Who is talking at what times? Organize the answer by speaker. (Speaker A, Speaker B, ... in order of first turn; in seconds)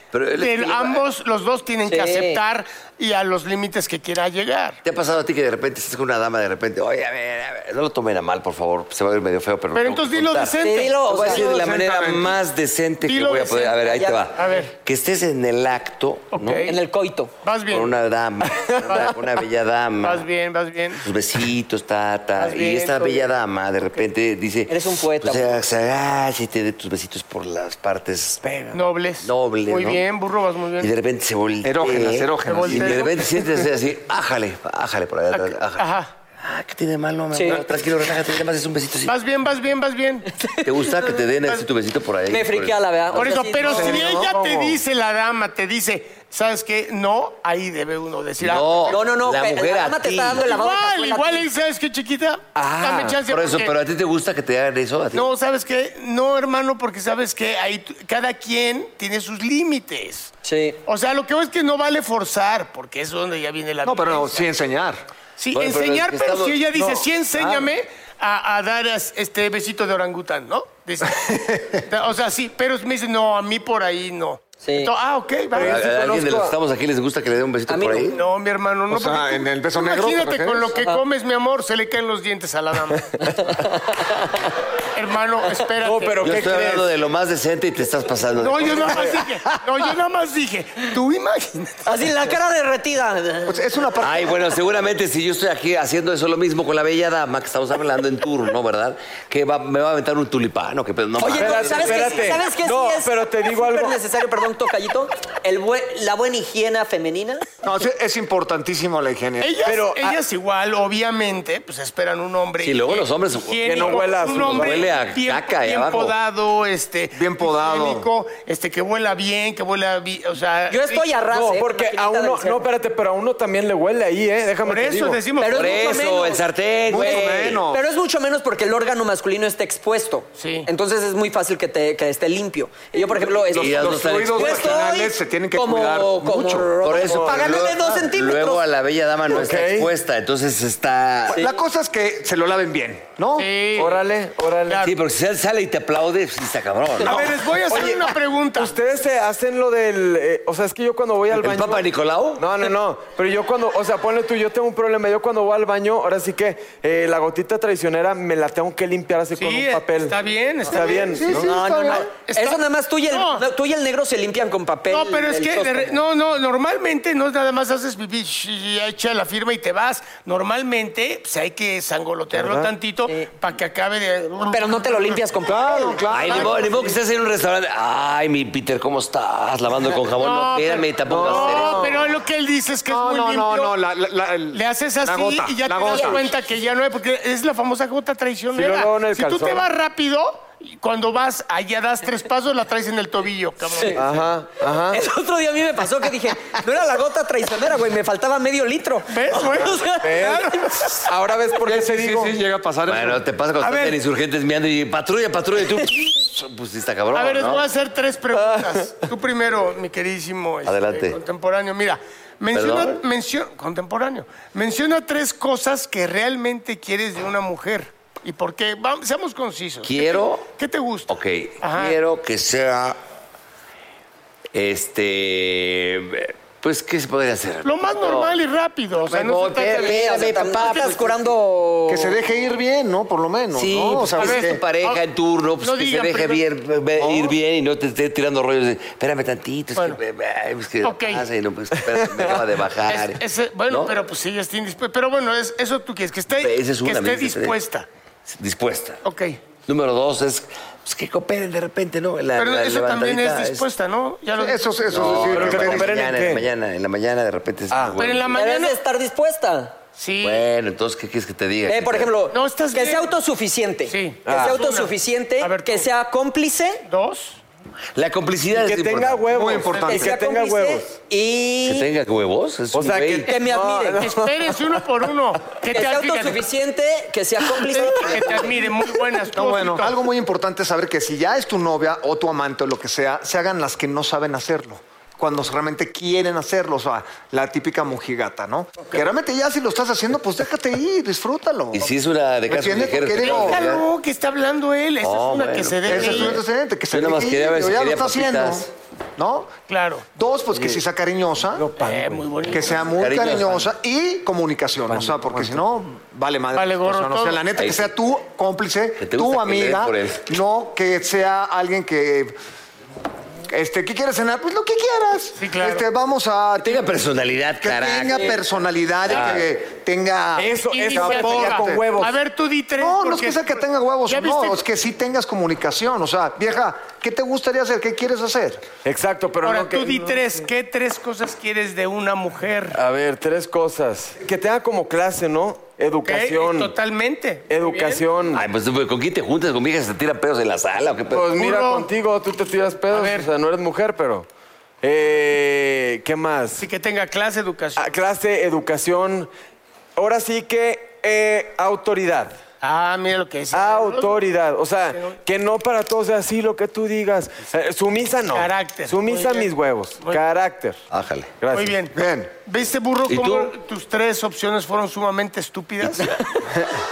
Speaker A: 0.1-1.0, 4.8-16.7, 17.7-20.3, 21.0-28.4, 29.2-30.1, 30.8-35.9, 36.4-39.1, 40.6-43.8, 48.4-50.5, 52.8-55.3, 65.5-67.7, 75.5-78.2, 86.2-89.1, 94.0-102.3, 112.6-116.1, 125.5-127.6, 133.5-134.8, 136.8-141.4, 144.8-147.3, 151.3-152.4, 176.1-182.0, 202.9-207.7, 210.6-211.2, 212.5-213.0, 219.8-220.5, 221.1-223.0, 224.5-228.4, 229.0-231.1, 233.5-243.9, 246.3-247.6, 248.3-249.0, 249.7-253.7, 254.9-258.4, 260.2-262.1, 267.9-269.3, 271.6-273.3, 291.7-293.9, 295.0-298.7, 302.9-303.7, 307.6-307.9, 309.0-310.2, 316.6-319.5, 338.3-341.3, 360.9-361.3, 363.1-363.5
Speaker B: 0.4-4.8, 9.7-11.0, 13.0-14.7, 16.3-16.8, 17.4-17.9, 18.9-19.1, 20.0-21.0, 22.4-23.3, 28.4-30.9, 32.4-33.2, 35.3-36.1, 39.0-40.3, 43.1-49.0, 50.4-53.7, 55.1-60.3, 60.9-64.5, 65.4-75.8, 78.1-83.0, 84.9-86.3, 88.4-91.8, 109.4-121.1, 124.6-126.3, 130.4-130.7, 143.4-144.0, 144.7-144.9, 147.0-148.7, 159.3-161.3, 161.9-163.4, 164.9-175.2, 180.2-183.8, 184.5-194.2, 199.1-200.8, 203.6-204.0, 207.1-222.0, 227.6-231.0, 234.2-235.0, 235.6-236.4, 240.8-241.3, 242.9-247.8, 249.0-249.4, 252.4-254.9, 258.0-258.8, 260.0-260.4, 262.3-263.1, 263.9-265.9, 266.9-267.4, 274.0-276.4, 277.7-280.0, 293.2-296.4, 299.7-300.1, 301.8-302.9, 306.5-307.4, 315.4-315.9, 320.7-324.6, 329.4-332.8, 336.0-338.1, 341.3-341.9, 342.9-343.3, 346.6-347.9, 352.6-354.2, 358.3-360.2, 361.5-366.2
Speaker C: 1.9-2.4, 10.6-11.5, 13.8-14.2, 16.6-17.3, 24.7-25.6, 37.3-37.6, 42.3-44.1, 48.9-51.5, 60.4-60.8, 74.6-74.9, 77.7-78.1, 80.8-81.0, 83.2-84.4, 91.8-93.5, 101.2-107.5, 120.7-122.6, 125.4-138.6, 161.3-166.0, 174.5-176.1, 193.7-194.0, 194.9-200.9, 229.7-232.2, 258.3-259.8, 261.7-266.8, 269.8-271.9, 273.3-274.0, 275.7-278.5
Speaker D: 11.2-12.4, 31.6-33.1, 43.7-44.5, 63.8-65.0, 71.2-71.8, 78.9-80.8, 93.5-94.5, 107.6-109.5, 117.1-118.1, 126.9-127.8, 133.5-136.8, 141.3-143.5, 160.7-162.1, 175.4-176.9, 182.9-186.3, 201.6-203.2, 231.9-234.6, 237.0-237.3, 254.3-255.9, 269.3-270.1, 279.3-291.9, 292.5-293.7, 295.8-299.5, 300.1-301.7, 302.5-312.4, 313.5-316.8, 317.6-322.1, 322.8-328.6, 361.9-362.3
Speaker E: 18.5-19.1, 43.8-44.8, 52.6-53.2, 75.5-76.5, 85.8-86.9, 101.3-104.0, 109.6-110.2, 113.6-114.9, 121.3-125.2, 136.9-137.3, 139.3-139.9, 143.7-144.8, 147.1-151.8, 152.4-161.6, 172.3-172.7, 181.0-182.0, 188.5-189.7, 193.9-195.0, 200.0-200.5, 201.0-202.4, 208.3-208.8, 242.0-242.3, 255.0-256.4, 257.7-258.0, 264.2-264.6, 268.5-271.0, 272.7-274.8, 278.2-278.6, 300.5-300.8, 301.5-302.7, 304.9-305.6, 320.4-322.2, 328.8-330.3, 332.7-336.7, 337.5-338.4, 341.1-344.2, 344.8-346.6, 347.8-349.3, 349.9-352.4, 353.5-360.8, 361.4-361.8